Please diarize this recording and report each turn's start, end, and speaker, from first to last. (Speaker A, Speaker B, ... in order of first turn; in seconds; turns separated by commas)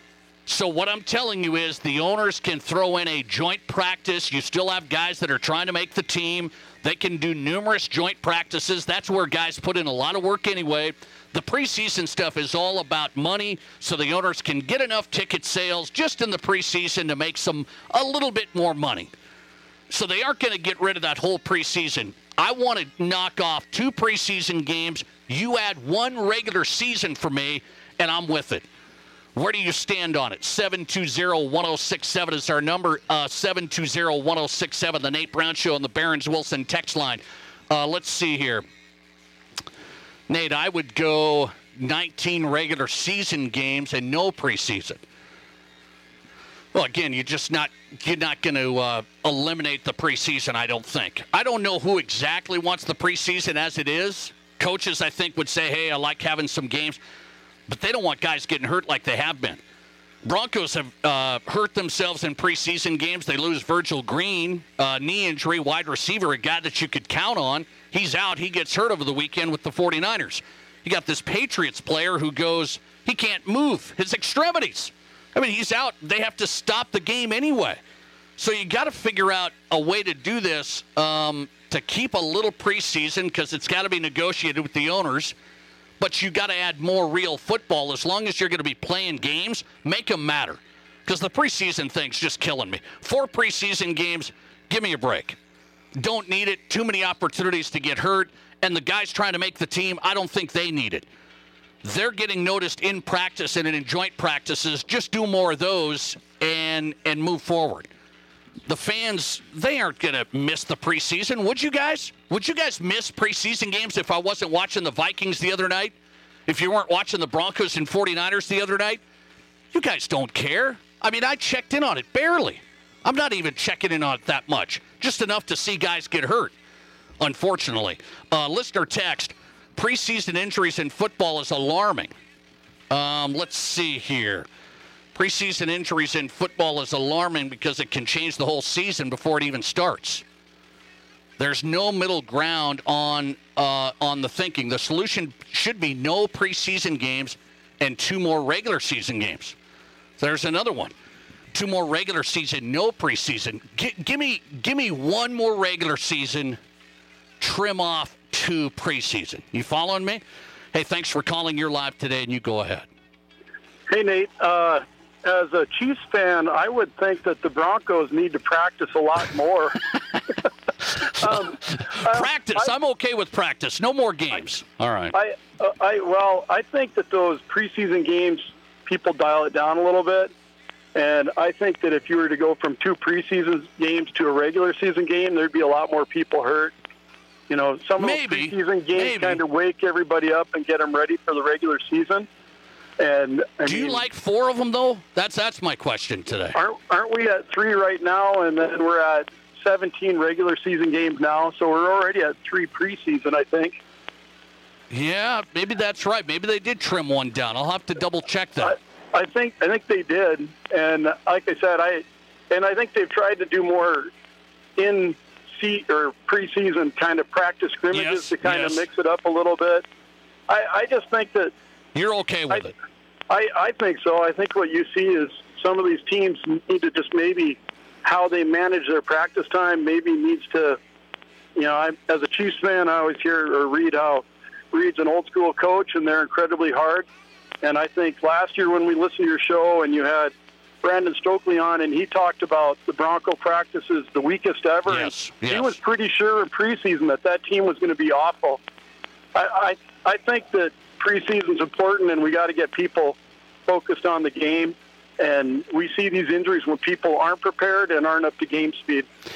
Speaker A: 0.5-19.1, Speaker A: 19.9-28.7, Speaker A: 29.3-38.6, Speaker A: 40.3-45.0, Speaker A: 46.7-57.0, Speaker A: 57.7-59.6, Speaker A: 60.2-77.8, Speaker A: 78.4-85.3, Speaker A: 86.0-95.4, Speaker A: 96.0-101.1, Speaker A: 101.8-107.9, Speaker A: 108.7-116.0, Speaker A: 116.5-119.0, Speaker A: 119.7-126.5, Speaker A: 127.2-132.1, Speaker A: 132.9-134.4, Speaker A: 135.1-140.2, Speaker A: 141.4-149.6, Speaker A: 150.2-150.9, Speaker A: 151.5-156.6, Speaker A: 157.4-160.2, Speaker A: 160.7-162.8, Speaker B: 163.9-169.8, Speaker A: 171.2-175.1, Speaker B: 171.2-172.7, Speaker B: 175.1-180.3, Speaker B: 180.9-186.7, Speaker B: 187.5-192.3, Speaker A: 188.0-189.4, Speaker B: 193.0-194.1, Speaker A: 193.6-196.6, Speaker B: 196.5-203.8, Speaker A: 204.9-208.7, Speaker B: 208.6-214.1, Speaker B: 214.8-219.8, Speaker A: 217.9-218.8, Speaker B: 220.5-221.5, Speaker A: 221.9-222.7, Speaker B: 223.3-230.8, Speaker B: 231.6-237.1, Speaker B: 237.6-248.6, Speaker A: 244.9-245.8, Speaker B: 249.3-259.1